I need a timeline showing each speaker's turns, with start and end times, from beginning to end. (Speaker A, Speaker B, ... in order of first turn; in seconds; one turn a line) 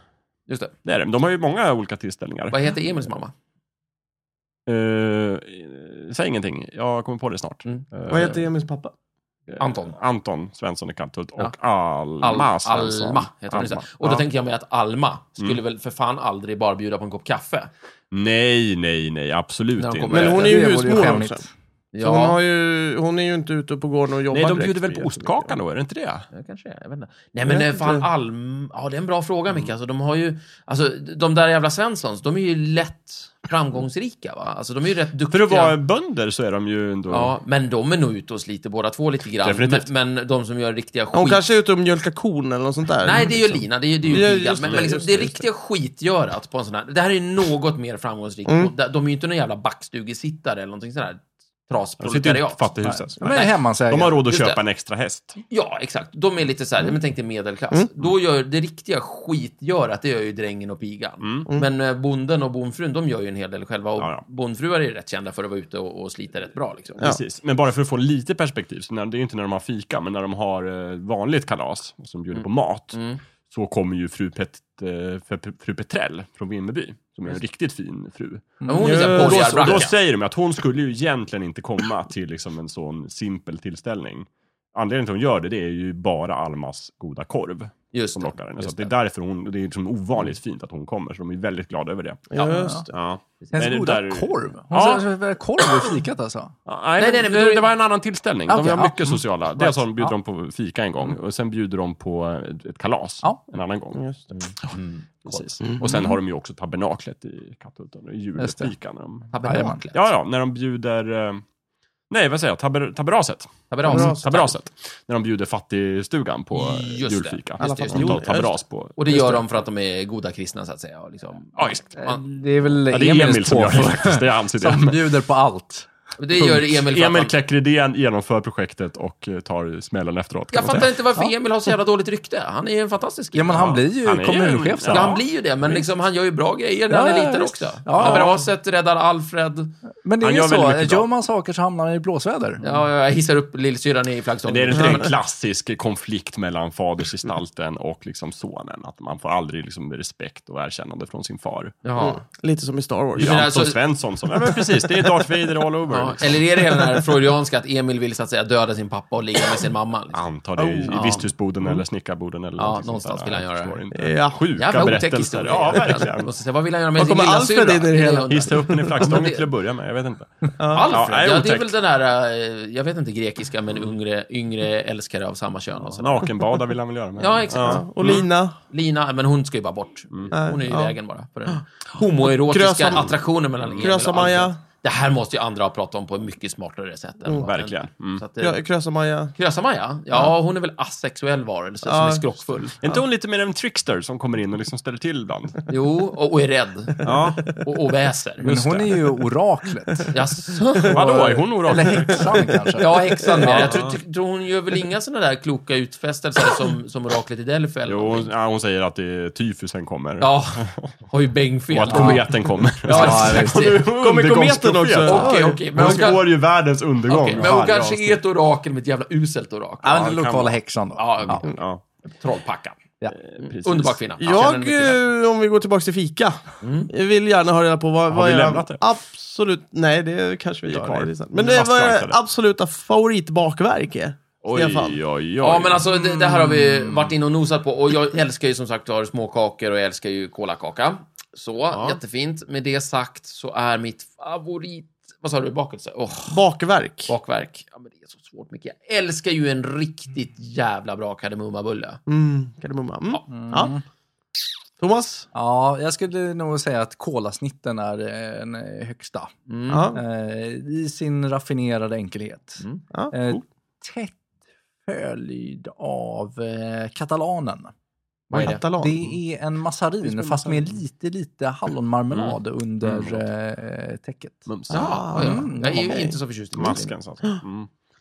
Speaker A: 0.5-0.7
Speaker B: 0.8-2.5
Speaker A: 2.5-3.3
Speaker B: 4.7-8.4
Speaker A: 7.6-8.3
Speaker C: 8.1-8.9
Speaker B: 9.5-14.2
Speaker A: 9.6-9.9
Speaker A: 12.2-17.7
Speaker B: 18.1-20.6
Speaker A: 19.8-20.9
Speaker C: 20.1-21.4
Speaker D: 20.3-21.5
Speaker A: 21.9-22.4
Speaker C: 22.0-25.6
Speaker B: 24.3-26.2
Speaker A: 26.3-35.8
Speaker C: 27.4-28.1
Speaker B: 35.3-37.4
Speaker A: 37.1-41.4
Speaker B: 39.4-39.9
Speaker C: 41.1-45.4
Speaker A: 43.0-52.6
Speaker B: 44.0-44.8
Speaker C: 48.5-48.7
Speaker B: 52.0-55.4
Speaker D: 52.8-54.2
Speaker A: 53.2-53.5
Speaker A: 54.2-54.6
Speaker A: 55.5-67.0
Speaker B: 61.2-61.5
Speaker B: 64.0-64.2
Speaker B: 67.0-92.3
Speaker A: 72.3-73.2
Speaker D: 78.6-78.9
Speaker A: 78.7-79.9
Speaker C: 78.8-79.8
Speaker A: 87.9-88.9
Speaker C: 92.3-92.9
Speaker D: 92.4-92.8
Speaker B: 92.9-95.1
Speaker D: 93.5-96.5
Speaker B: 96.7-104.0
Speaker A: 97.0-97.7
Speaker D: 98.5-100.1
Speaker C: 103.9-104.2
Speaker A: 104.3-105.8
Speaker B: 105.2-109.3
Speaker D: 108.4-108.7
Speaker A: 109.3-110.1
Speaker D: 109.4-109.8
Speaker B: 109.9-111.4
Speaker B: 112.1-119.4
Speaker A: 113.7-114.5
Speaker C: 113.8-114.2
Speaker A: 116.5-118.2
Speaker C: 117.6-118.6
Speaker A: 119.0-122.2
Speaker D: 122.0-125.9
Speaker B: 122.9-125.1
Speaker A: 126.2-127.3
Speaker B: 126.4-130.9
Speaker A: 130.5-133.8
Speaker D: 133.3-135.2
Speaker B: 133.5-135.2
Speaker A: 134.9-139.7
Speaker D: 136.9-138.4
Speaker D: 140.0-142.6
Speaker B: 140.2-141.1
Speaker A: 142.6-145.1
Speaker B: 144.4-151.8
Speaker C: 144.7-145.0
Speaker A: 151.8-152.2
Speaker C: 152.0-153.4
Speaker B: 153.2-156.4
Speaker A: 153.2-153.8
Speaker C: 154.4-155.1
Speaker A: 155.9-160.2
Speaker B: 160.1-166.3
Speaker C: 160.6-161.8
Speaker A: 160.8-161.3
Speaker A: 162.6-163.8
Speaker C: 163.9-164.4
Speaker A: 164.6-169.5
Speaker C: 167.0-169.0
Speaker B: 168.3-171.8
Speaker C: 170.6-171.0
Speaker A: 170.7-176.3
Speaker B: 176.0-178.3
Speaker A: 177.2-188.6
Speaker C: 177.5-178.6
Speaker C: 180.3-180.9
Speaker C: 181.5-183.2
Speaker C: 183.8-184.6
Speaker B: 187.3-188.2
Speaker C: 188.4-189.3
Speaker A: 189.3-193.0
Speaker C: 191.8-192.3
Speaker B: 192.8-195.7
Speaker A: 195.7-198.9
Speaker B: 197.0-197.6
Speaker D: 198.4-200.1
Speaker A: 200.1-201.1
Speaker B: 200.8-202.4
Speaker D: 200.9-203.7
Speaker A: 202.7-208.3
Speaker B: 203.4-203.9
Speaker B: 207.8-210.9
Speaker A: 210.2-213.8
Speaker B: 211.7-218.2
Speaker D: 211.9-212.3
Speaker D: 212.8-213.7
Speaker C: 213.5-216.1
Speaker A: 215.0-216.3
Speaker A: 217.1-220.1
Speaker D: 217.4-217.7
Speaker D: 219.8-221.4
Speaker B: 219.9-220.6
Speaker A: 220.9-222.8
Speaker B: 221.4-221.8
Speaker B: 223.1-224.3
Speaker A: 223.4-225.0
Speaker C: 224.2-235.0
Speaker A: 226.6-226.9
Speaker B: 228.1-228.8
Speaker B: 230.7-232.2
Speaker B: 234.4-235.8
Speaker A: 235.4-246.4
Speaker D: 235.9-237.1
Speaker C: 246.3-247.1
Speaker A: 247.1-252.0
Speaker C: 252.1-253.7
Speaker D: 253.3-253.8
Speaker C: 254.8-255.3
Speaker D: 255.3-259.3
Speaker A: 259.5-259.9
Speaker C: 259.7-260.0
Speaker D: 259.9-264.2
Speaker D: 264.8-267.7
Speaker A: 268.3-268.6
Speaker C: 268.3-269.1
Speaker D: 268.4-274.5
Speaker B: 270.0-270.8
Speaker B: 272.1-273.2
Speaker B: 274.5-275.1
Speaker A: 274.7-276.9
Speaker C: 274.7-276.1
Speaker D: 275.1-276.1
Speaker B: 276.5-277.7